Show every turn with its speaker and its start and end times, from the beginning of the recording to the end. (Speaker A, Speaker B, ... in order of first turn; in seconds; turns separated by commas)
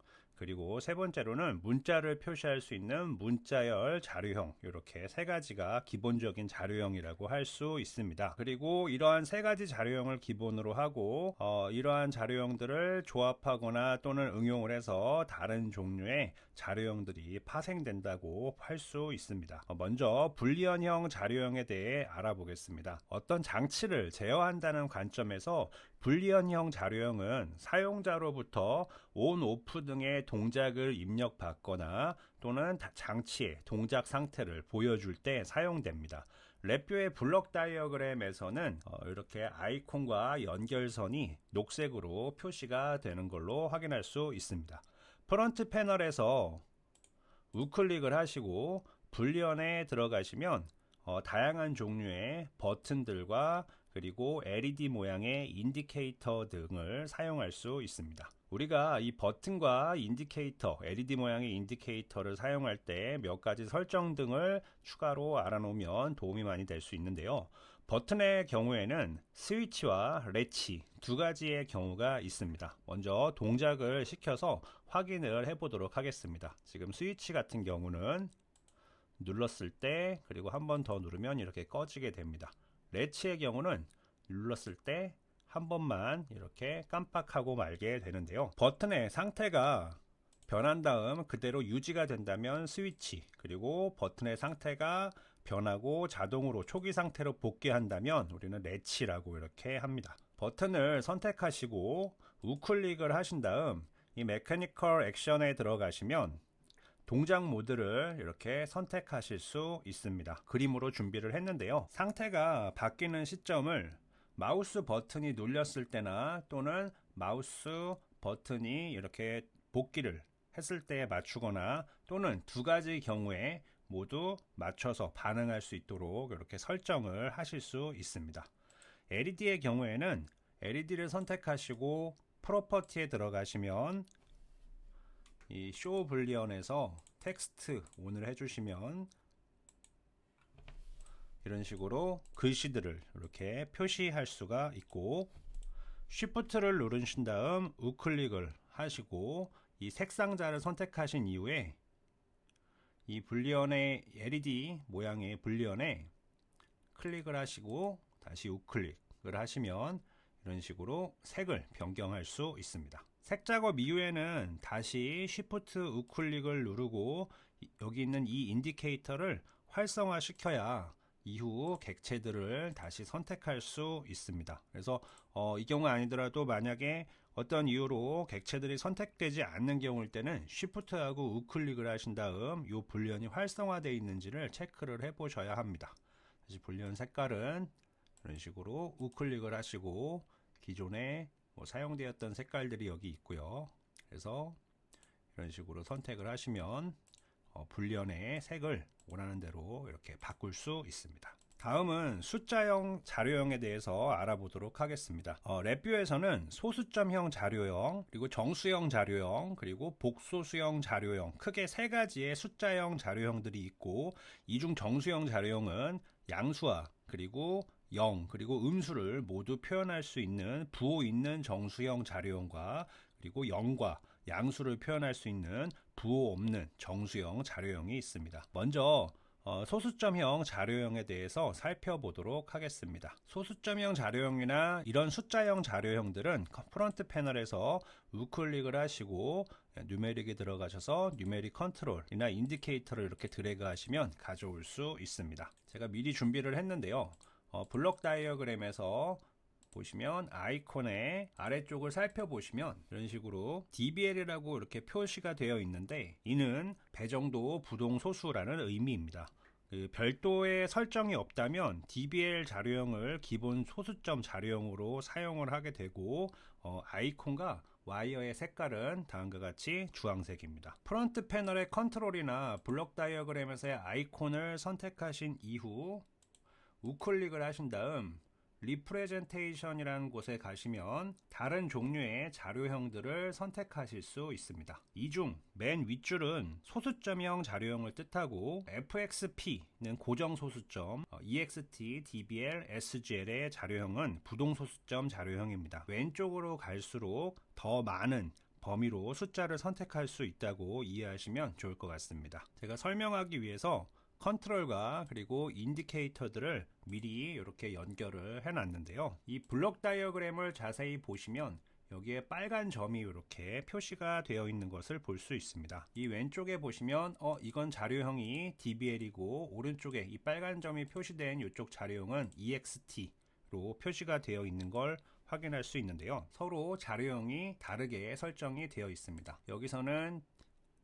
Speaker A: 0.4-46.6, Speaker A: 47.5-78.3, Speaker A: 79.2-106.4, Speaker A: 107.1-128.5, Speaker A: 129.1-134.1, Speaker A: 135.5-139.1, Speaker A: 141.4-145.3, Speaker A: 146.1-151.8, Speaker A: 153.1-156.1, Speaker A: 156.9-185.9, Speaker A: 186.5-187.7, Speaker A: 188.2-194.6, Speaker A: 195.3-197.0, Speaker A: 197.5-276.1, Speaker A: 276.8-330.2